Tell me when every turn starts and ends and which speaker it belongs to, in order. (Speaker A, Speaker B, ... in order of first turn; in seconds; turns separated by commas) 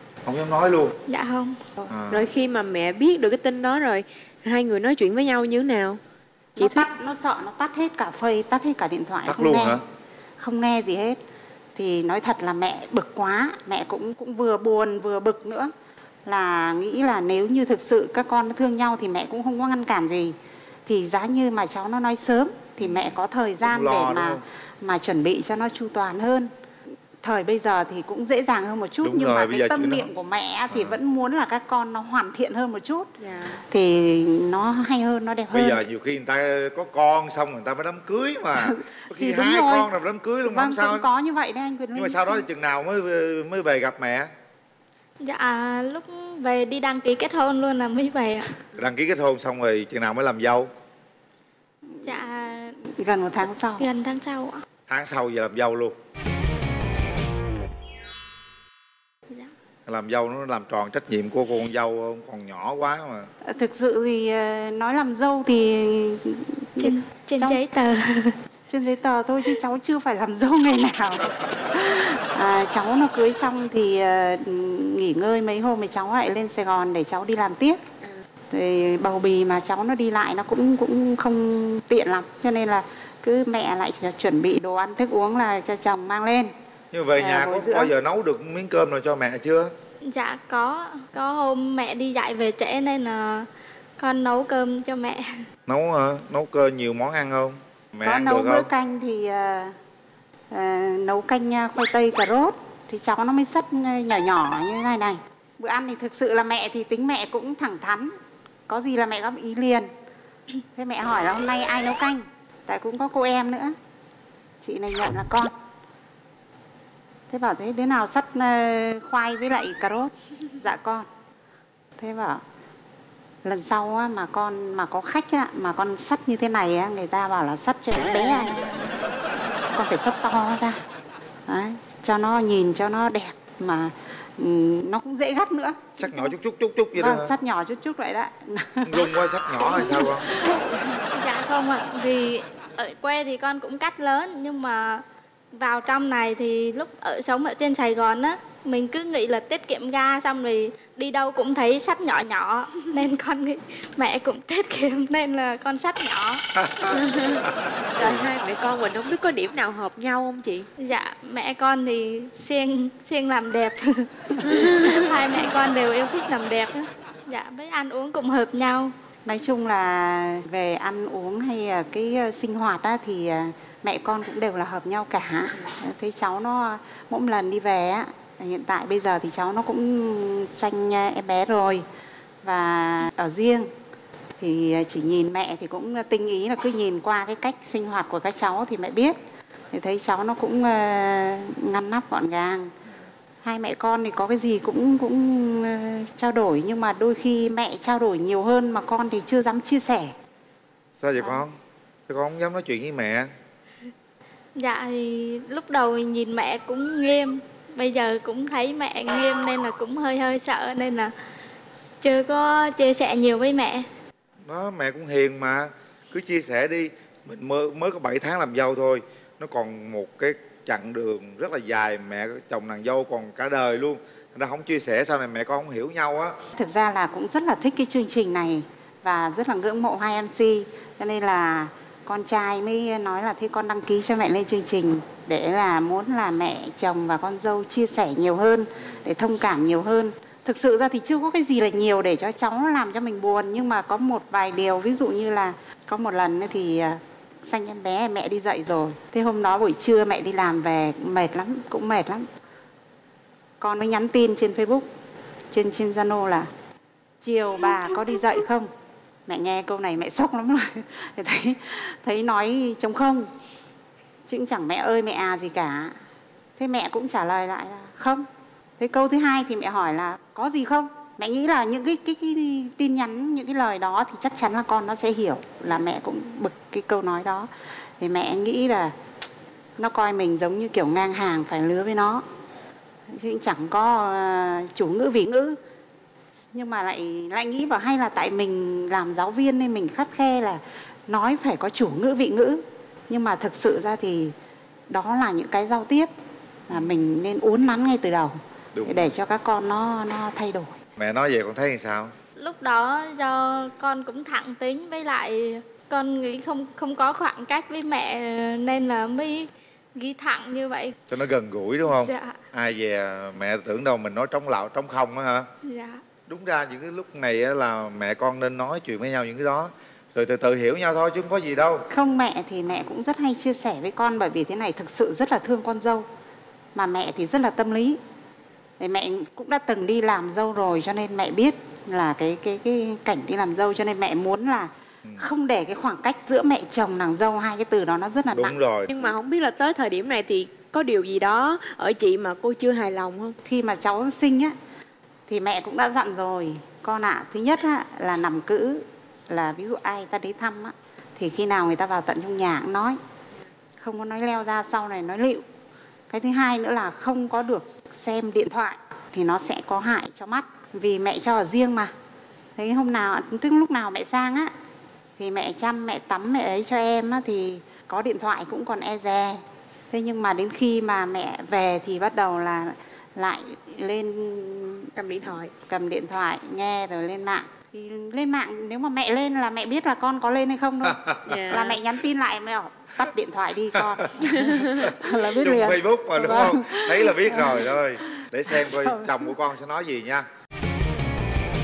Speaker A: 0.2-0.9, Speaker B: 1.1-1.6, Speaker A: 1.9-2.2, Speaker C: 2.1-6.0, Speaker D: 6.5-9.8, Speaker C: 6.6-6.9, Speaker A: 9.2-9.8, Speaker D: 10.4-11.2, Speaker D: 11.7-15.7, Speaker D: 16.2-20.3, Speaker D: 20.9-26.5, Speaker A: 22.8-24.4, Speaker D: 27.2-33.1, Speaker A: 29.0-30.1, Speaker A: 30.7-31.0, Speaker C: 33.2-33.6, Speaker D: 33.7-35.8, Speaker A: 35.5-41.1, Speaker D: 38.6-39.9, Speaker D: 40.5-42.4, Speaker A: 41.9-44.3, Speaker B: 45.2-48.5, Speaker A: 48.7-50.7, Speaker D: 51.9-52.2, Speaker B: 52.0-52.8, Speaker D: 52.9-53.9, Speaker B: 53.8-54.6, Speaker A: 54.9-55.9, Speaker A: 59.9-63.3, Speaker D: 63.4-67.6, Speaker B: 66.8-68.4, Speaker D: 68.7-77.8, Speaker D: 78.5-86.5, Speaker A: 86.9-89.7, Speaker D: 87.1-87.9, Speaker B: 90.0-95.4, Speaker A: 95.7-98.7, Speaker D: 98.0-99.7, Speaker D: 100.5-108.1, Speaker D: 108.7-109.9, Speaker D: 110.7-113.7, Speaker D: 114.6-115.5, Speaker D: 117.3-121.1, Speaker D: 122.0-122.4, Speaker D: 123.4-128.9, Speaker D: 129.7-130.8, Speaker D: 131.5-136.0, Speaker A: 136.0-137.3, Speaker D: 136.9-139.1, Speaker A: 138.8-140.3, Speaker D: 139.6-140.1, Speaker B: 141.0-156.4, Speaker C: 152.8-153.2, Speaker C: 156.9-157.3, Speaker C: 157.9-160.7, Speaker B: 160.8-164.2, Speaker C: 164.4-165.4, Speaker B: 164.8-168.9, Speaker D: 169.2-181.8, Speaker D: 182.4-183.7, Speaker D: 184.4-189.2, Speaker D: 189.7-192.7, Speaker D: 193.4-200.1, Speaker A: 201.0-201.5, Speaker D: 201.2-201.4, Speaker A: 202.1-203.3, Speaker B: 204.5-211.1, Speaker B: 212.0-213.9, Speaker A: 214.5-226.3, Speaker D: 226.6-252.2, Speaker D: 253.6-254.9, Speaker D: 255.5-256.5, Speaker D: 257.2-258.7, Speaker D: 259.2-263.3, Speaker D: 264.2-265.9, Speaker D: 266.6-268.2, Speaker D: 268.8-278.9, Speaker D: 279.8-282.2, Speaker D: 283.1-285.6, Speaker D: 286.5-294.3, Speaker D: 294.9-296.1, Speaker D: 296.7-300.8, Speaker A: 298.7-299.1, Speaker A: 301.0-302.1, Speaker B: 302.4-310.9, Speaker A: 311.1-315.5, Speaker B: 311.8-312.4, Speaker B: 315.6-316.0, Speaker A: 316.3-321.8, Speaker D: 321.9-326.1, Speaker D: 326.7-328.0, Speaker D: 328.8-339.1, Speaker A: 338.3-338.9, Speaker C: 338.9-343.3, Speaker D: 343.4-344.5, Speaker D: 345.3-353.0, Speaker D: 353.8-355.4, Speaker D: 356.1-361.9, Speaker D: 362.6-364.5, Speaker D: 365.2-374.9, Speaker C: 374.9-375.5, Speaker D: 375.7-387.7, Speaker C: 381.2-381.8, Speaker C: 384.5-384.8, Speaker A: 385.4-390.2, Speaker D: 388.6-389.1